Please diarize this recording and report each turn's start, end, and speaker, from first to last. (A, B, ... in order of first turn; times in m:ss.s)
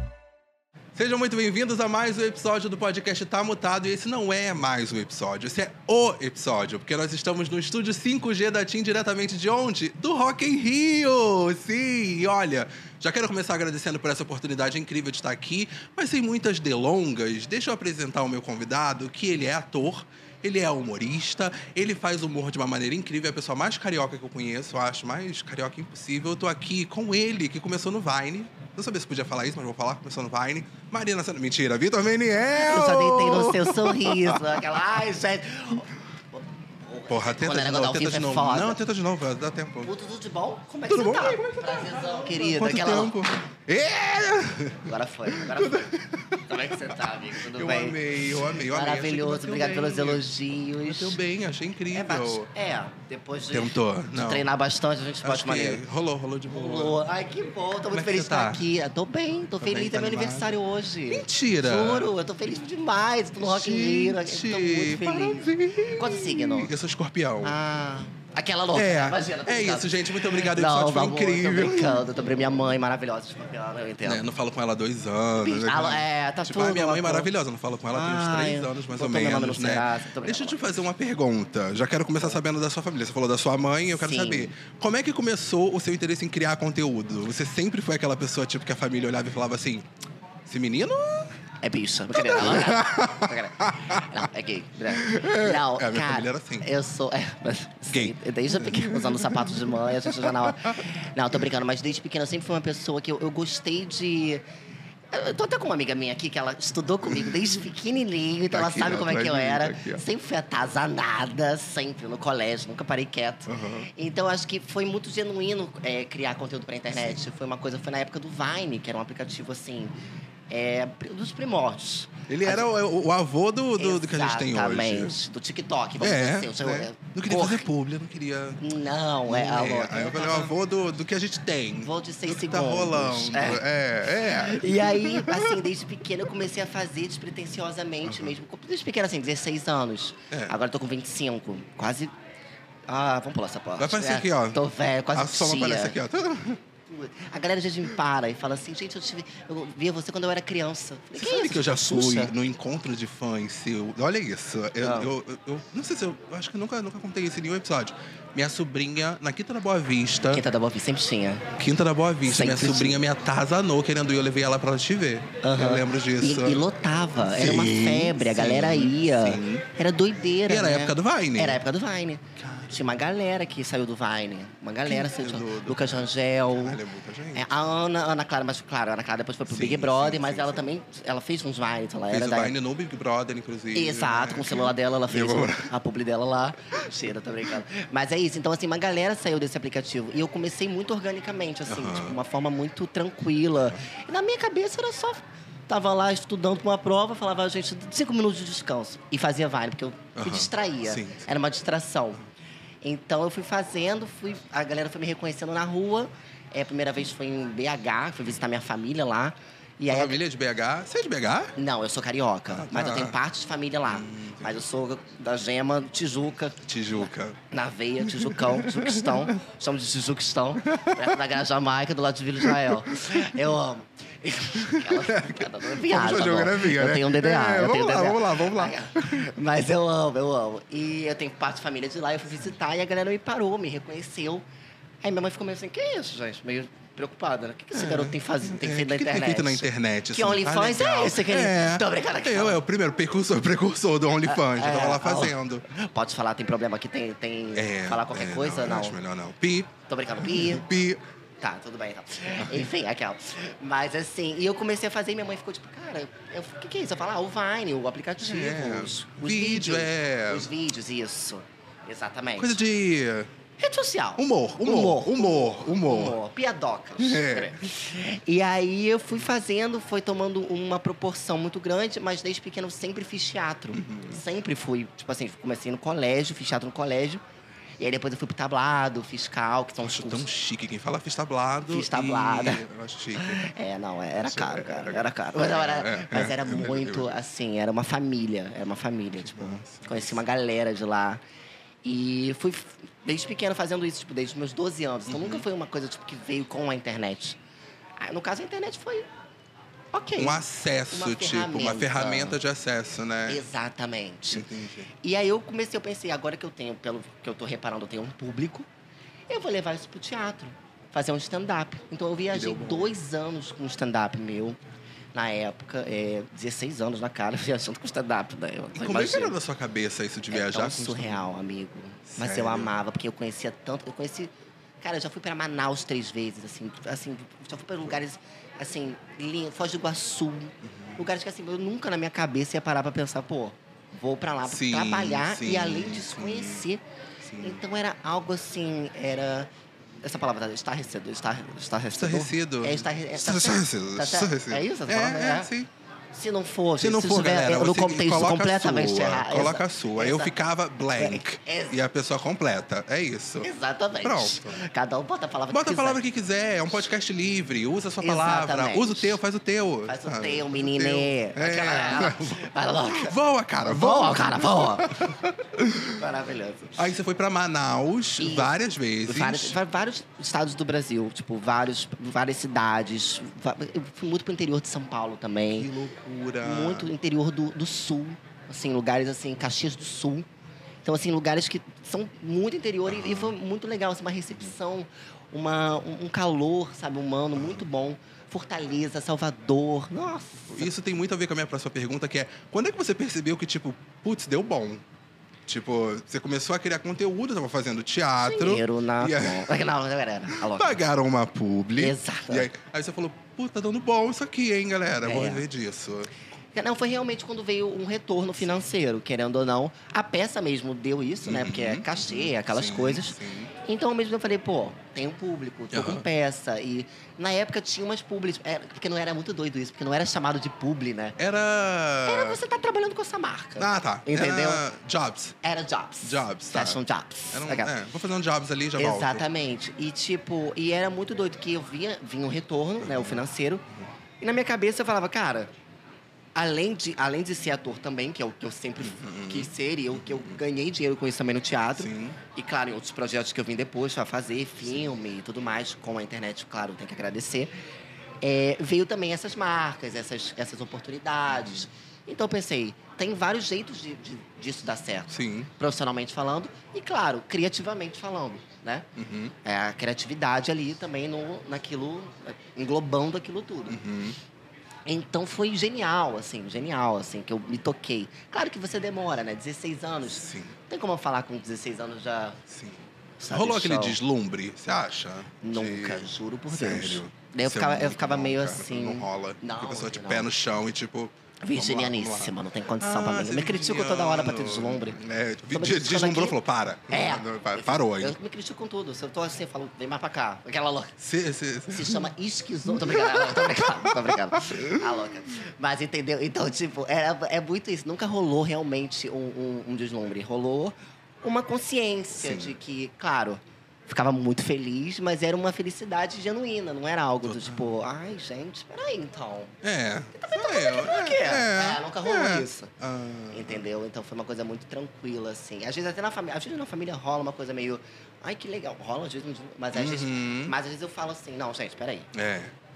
0:00.9-0:34.8 A
0:32.5-0:38.8 B
0:37.1-0:39.9 A
0:39.8-0:43.3 B
0:40.9-0:52.5 A
0:44.8-0:51.2 B
0:51.9-0:55.8 B
0:53.5-0:54.5 A
0:55.2-0:57.0 A
0:56.5-1:06.7 B
0:57.9-0:58.7 A
0:59.6-1:00.6 A
1:01.1-1:02.1 A
1:03.4-1:07.6 A
1:07.4-1:14.2 B
1:08.7-1:12.2 A
1:14.0-1:29.8 A
1:15.4-1:17.3 B
1:17.9-1:20.6 B
1:23.9-1:24.5 B
1:30.4-1:31.3 A
1:31.6-1:44.4 B
1:32.1-1:34.3 A
1:34.9-1:36.7 A
1:37.9-1:40.8 A
1:45.1-1:59.9 B
1:47.0-1:47.5 A
1:48.5-1:50.0 A
1:53.5-1:53.9 A
2:00.5-2:02.7 B
2:02.3-2:05.2 A
2:03.8-2:07.7 B
2:06.0-2:08.6 A
2:08.6-2:10.5 B
2:09.2-2:15.7 A
2:11.8-2:22.1 B
2:18.0-2:18.3 A
2:22.9-2:26.0 B
2:23.8-2:26.6 A
2:26.9-2:32.3 B
2:31.1-2:40.5 A
2:34.8-2:35.1 B
2:40.3-2:41.5 B
2:41.6-2:49.7 A
2:42.2-2:43.0 B
2:45.4-2:56.8 B
2:50.4-2:51.6 A
2:52.4-2:52.9 A
2:54.8-2:57.6 A
2:57.3-3:02.5 B
2:59.5-3:00.7 A
3:02.1-3:05.7 A
3:03.7-3:22.2 B
3:11.6-3:12.2 A
3:20.2-3:21.2 A
3:22.8-3:30.2 B
3:29.9-3:31.5 A
3:31.6-3:36.6 B
3:32.5-3:33.2 A
3:33.9-3:34.6 A
3:36.6-3:37.4 A
3:37.5-3:54.4 B
3:38.0-3:39.4 A
3:40.6-3:41.2 A
3:42.4-3:43.4 A
3:44.6-3:49.2 A
3:55.0-4:02.6 B
3:57.7-4:05.6 A
4:04.2-4:09.0 B
4:07.5-4:11.0 A
4:09.9-4:10.7 B
4:11.4-4:22.6 B
4:12.4-4:12.7 A
4:18.2-4:20.5 A
4:22.4-4:23.3 A
4:23.6-4:37.2 B
4:24.2-4:26.2 A
4:27.0-4:27.7 A
4:33.7-4:34.2 A
4:37.8-4:40.2 B
4:39.8-4:43.5 A
4:41.7-4:51.2 B
4:44.2-4:47.2 A
4:49.1-4:50.2 A
4:51.8-4:57.4 B
4:55.1-4:55.4 A
4:58.0-4:59.1 B
4:59.9-5:02.4 B
5:00.2-5:03.4 A
5:03.3-5:04.5 B
5:04.3-5:04.9 A
5:05.0-5:08.7 B
5:09.3-5:14.6 B
5:12.3-5:12.9 A
5:15.1-5:19.3 B
5:18.7-5:21.3 A
5:20.3-5:36.8 B
5:22.1-5:22.7 A
5:30.6-5:31.0 A
5:34.4-5:36.6 A
5:37.2-5:37.6 A
5:37.4-5:39.5 B
5:40.0-5:45.5 B
5:41.9-5:45.7 A
5:46.1-5:51.8 B
5:46.8-5:53.5 A
5:53.4-5:56.0 B
5:54.0-5:54.6 A
5:55.5-6:06.0 A
5:58.0-5:59.2 B
5:59.8-6:05.1 B
6:05.9-6:06.8 B
6:06.8-6:09.6 A
6:08.2-6:15.7 B
6:15.6-6:16.9 A
6:16.4-6:20.2 B
6:20.8-6:30.7 B
6:22.9-6:23.3 A
6:27.4-6:27.6 A
6:30.5-6:34.8 A
6:35.5-6:39.5 A
6:38.2-6:40.8 B
6:40.3-6:46.1 A
6:41.8-6:42.5 B
6:45.0-6:45.4 B
6:46.5-7:01.2 B
6:51.2-6:53.5 A
6:55.7-6:56.0 A
7:01.2-7:02.4 A
7:02.0-7:04.6 B
7:03.6-7:05.3 A
7:05.4-7:07.7 B
7:06.0-7:06.8 A
7:07.3-7:09.2 A
7:08.8-7:13.6 B
7:12.8-7:13.2 A
7:14.2-7:15.5 B
7:16.3-7:27.5 B
7:18.8-7:20.4 A
7:21.7-7:22.2 A
7:28.2-7:38.9 B
7:31.3-7:31.6 A
7:35.1-7:35.5 A
7:39.0-7:39.3 A
7:39.4-7:43.8 B
7:43.7-7:44.2 A
7:44.8-7:52.4 B
7:50.1-7:50.5 A
7:52.5-8:08.2 A
7:53.2-7:54.0 B
7:55.4-8:00.3 B
8:01.4-8:11.0 B
8:11.0-8:12.1 A
8:11.7-8:29.6 B
8:12.7-8:14.8 A
8:22.2-8:22.6 A
8:27.2-8:27.7 A
8:29.6-8:33.7 A
8:30.1-8:32.7 B
8:33.3-8:42.1 B
8:39.7-8:40.5 A
8:42.1-8:42.5 A